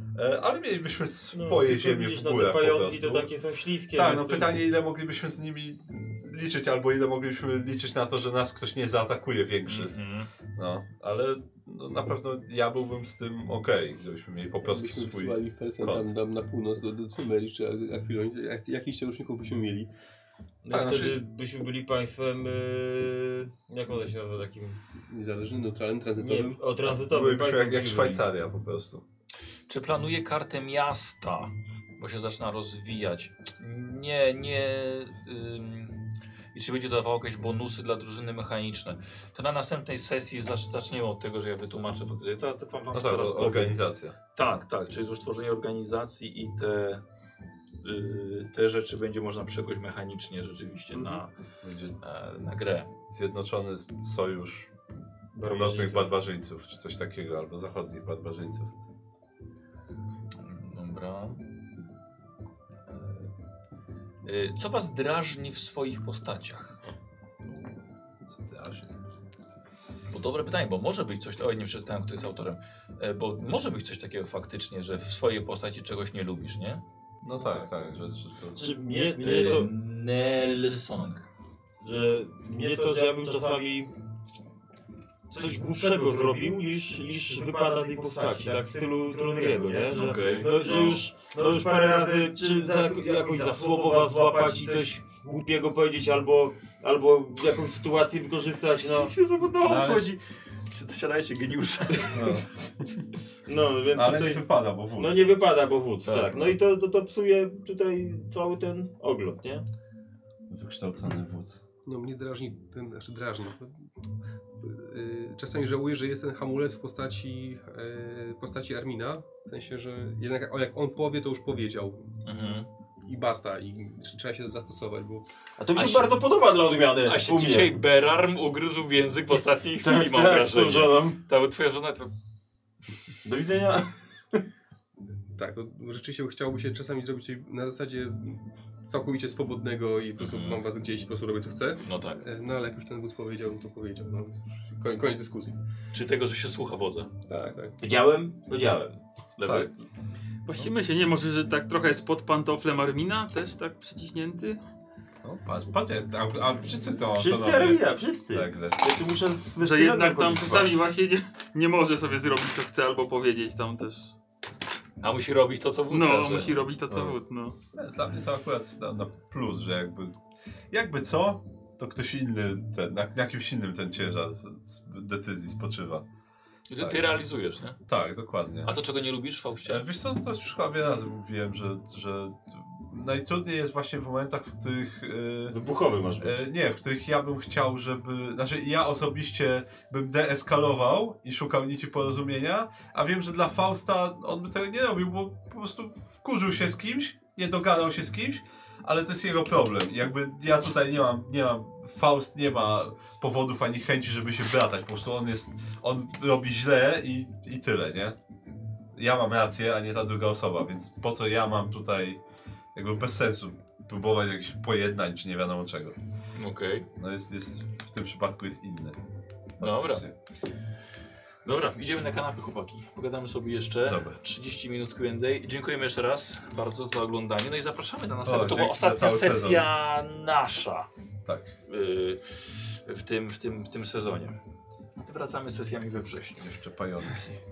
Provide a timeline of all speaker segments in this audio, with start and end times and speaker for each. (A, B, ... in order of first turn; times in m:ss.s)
0:00.1-0:03.3 A
0:01.3-0:04.7 B
0:03.9-0:09.9 A
0:09.6-0:10.3 C
0:10.6-0:16.1 A
0:14.6-0:19.9 D
0:20.6-0:24.8 B
0:20.7-0:21.2 A
0:25.1-0:26.6 D
0:26.2-0:28.2 B
0:26.9-0:29.0 A
0:29.7-0:43.8 C
0:42.9-0:44.2 A
0:44.3-0:47.0 C
0:47.8-0:51.3 C
0:50.9-0:51.2 D
0:51.6-0:52.0 A
0:52.0-0:52.9 C
0:53.1-0:54.7 A
0:55.3-0:56.1 B
0:55.4-0:58.7 A
1:00.4-1:01.4 C
1:02.9-1:03.3 C
1:04.2-1:06.8 C
1:07.4-1:09.0 A
1:10.1-1:16.8 C
1:17.2-1:18.7 A
1:18.5-1:19.7 B
1:19.1-1:21.3 C
1:21.8-1:23.9 B
1:25.3-1:39.1 B
1:29.9-1:31.0 C
1:38.8-1:42.5 C
1:39.6-1:40.1 A
1:42.1-1:42.8 A
1:43.4-1:49.6 B
1:43.9-1:45.3 A
1:46.0-1:46.5 C
1:50.5-1:51.6 A
1:51.8-1:53.8 D
1:54.6-2:02.1 D
2:02.2-2:02.7 C
2:03.0-2:05.2 D
2:05.6-2:07.7 B
2:05.8-2:06.1 C
2:07.0-2:12.1 C
2:09.8-2:11.2 B
2:13.2-2:14.4 B
2:15.3-2:25.6 D
2:20.2-2:20.6 C
2:21.8-2:22.2 C
2:25.9-2:27.1 C
2:27.3-2:27.8 D
2:27.8-2:29.0 B
2:29.4-2:29.7 C
2:29.4-2:29.8 A
2:30.4-2:34.6 E
2:35.2-2:38.8 A
2:37.1-2:40.8 B
2:39.6-2:44.1 E
2:45.0-2:46.6 C
2:45.9-2:47.6 E
2:47.7-2:50.2 A
2:50.7-2:56.0 A
2:56.7-2:57.8 C
2:56.8-2:57.1 A
2:57.8-2:58.7 A
2:58.6-2:59.8 C
2:59.6-3:05.6 A
3:05.5-3:06.4 B
3:06.2-3:28.2 A
3:28.9-3:32.2 A
3:32.7-3:36.0 A
3:36.4-3:36.9 C
3:37.0-3:39.0 A
3:39.6-3:40.1 A
3:39.6-3:40.0 C
3:41.4-3:50.9 C
3:43.8-3:44.2 A
3:48.2-3:49.6 A
3:51.2-3:51.5 A
3:51.7-3:54.4 C
3:55.0-3:56.4 C
3:56.4-3:57.4 A